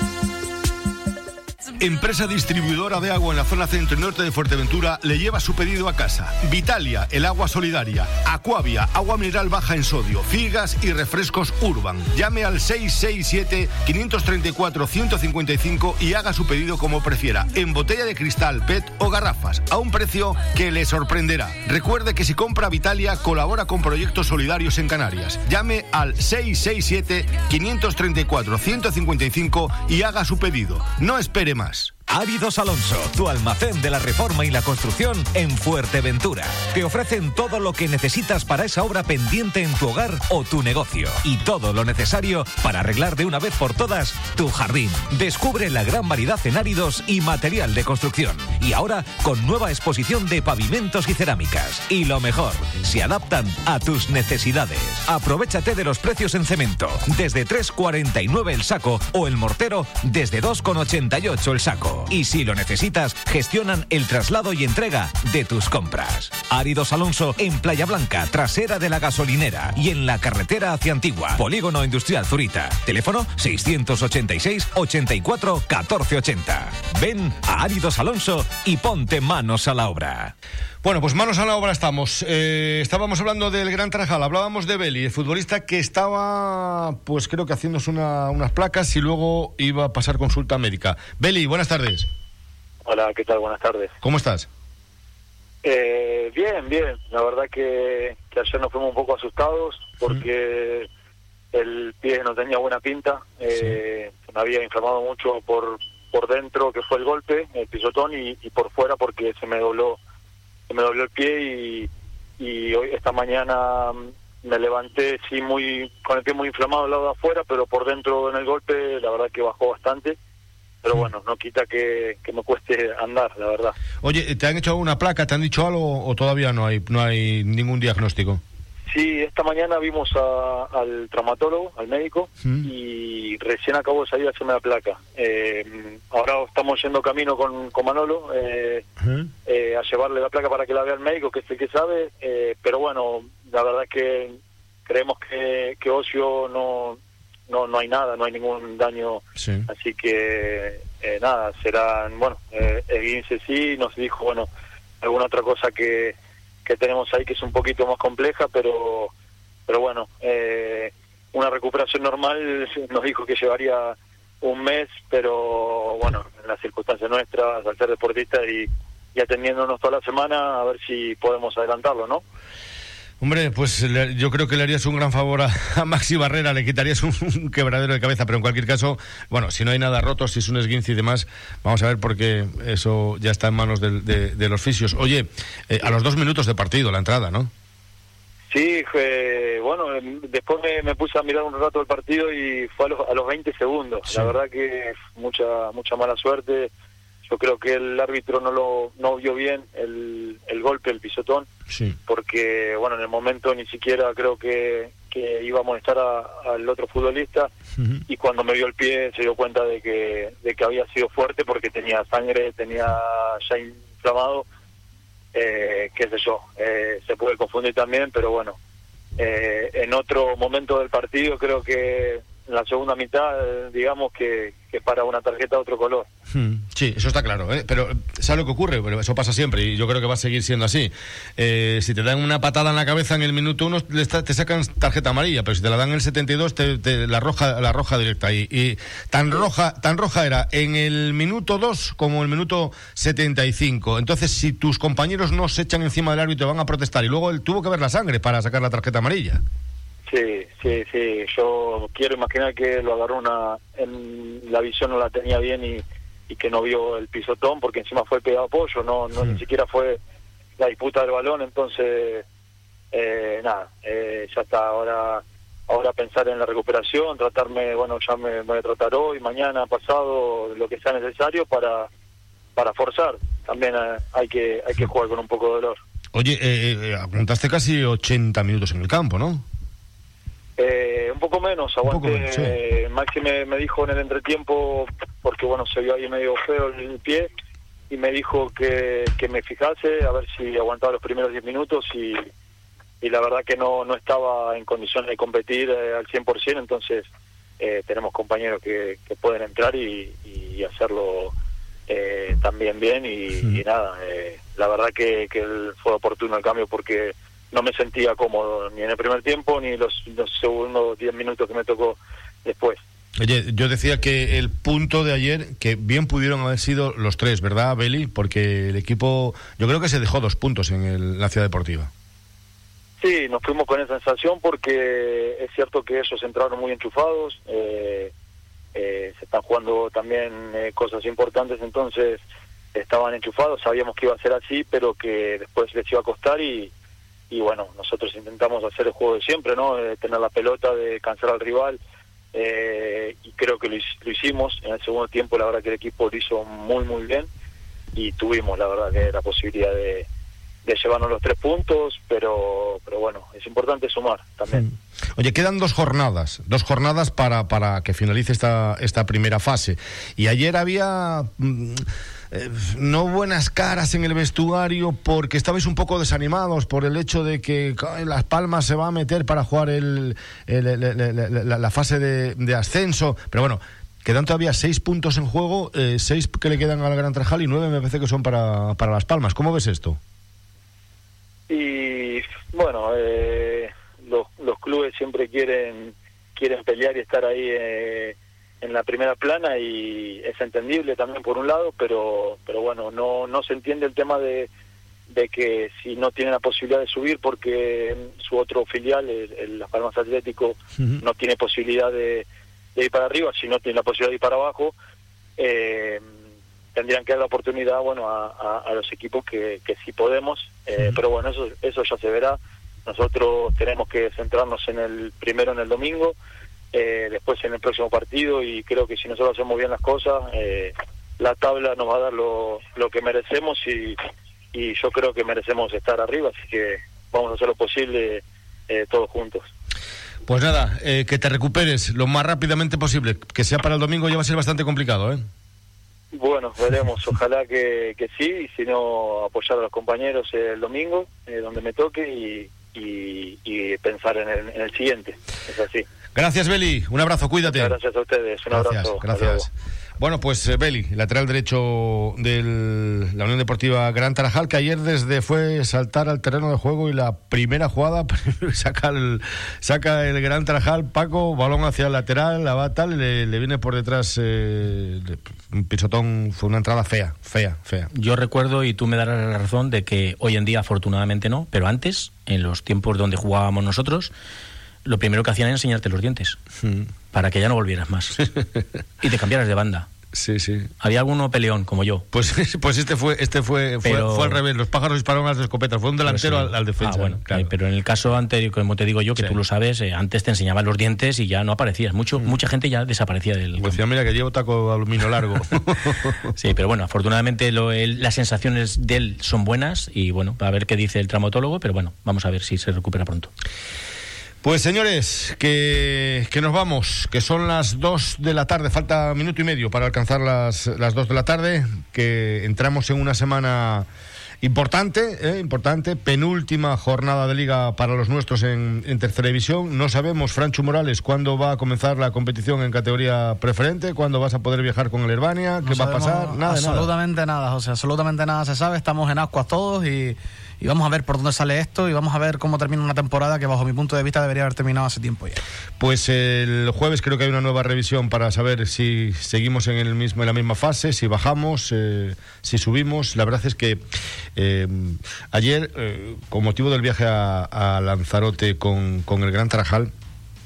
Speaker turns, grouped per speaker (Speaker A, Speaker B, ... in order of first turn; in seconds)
Speaker A: 1.8-31.9, 80.8-92.1, 94.0-94.5, 124.0-128.4, 132.4-132.7, 139.0-139.3, 149.4-149.7, 173.2-187.5, 201.7-202.0, 207.8-208.0, 226.3-249.4, 276.1-279.4, 281.9-282.6, 313.2-321.9, 354.5-380.0, 430.2-435.3, 446.1-447.8, 448.5-467.9, 476.6-476.9, 478.4-478.6, 480.1-480.7, 482.1-487.5, 493.6-496.3, 504.4-513.9, 514.4-526.9, 535.8-543.8, 544.4-549.9
Speaker B: 32.1-80.3
Speaker C: 92.8-93.9, 95.6-100.9, 101.5-110.0, 110.7-120.2, 120.8-123.7, 128.9-138.8, 139.4-154.5, 155.0-159.1, 159.7-172.2, 188.5-196.7, 197.2-201.5, 202.1-207.5, 208.1-214.4, 215.3-218.6, 219.2-226.1, 250.1-260.0, 260.6-262.2, 262.9-271.9, 272.5-275.8, 280.6-287.3, 287.9-292.2, 293.0-297.1, 297.6-301.3, 301.9-312.8, 323.0-328.1, 328.7-332.2, 332.7-336.7, 337.3-341.8, 342.3-347.3, 347.9-350.1, 350.6-354.7, 381.5-394.5, 395.1-404.7, 405.4-406.0, 406.7-416.1, 416.7-424.0, 424.5-429.5, 436.1-445.9, 447.4-449.5
Speaker D: 467.9-474.1, 474.8-476.4, 477.1-478.2, 479.0-479.9, 480.8-482.1, 483.8-484.4, 486.1-493.8, 496.4-503.3
Speaker E: 525.6-535.4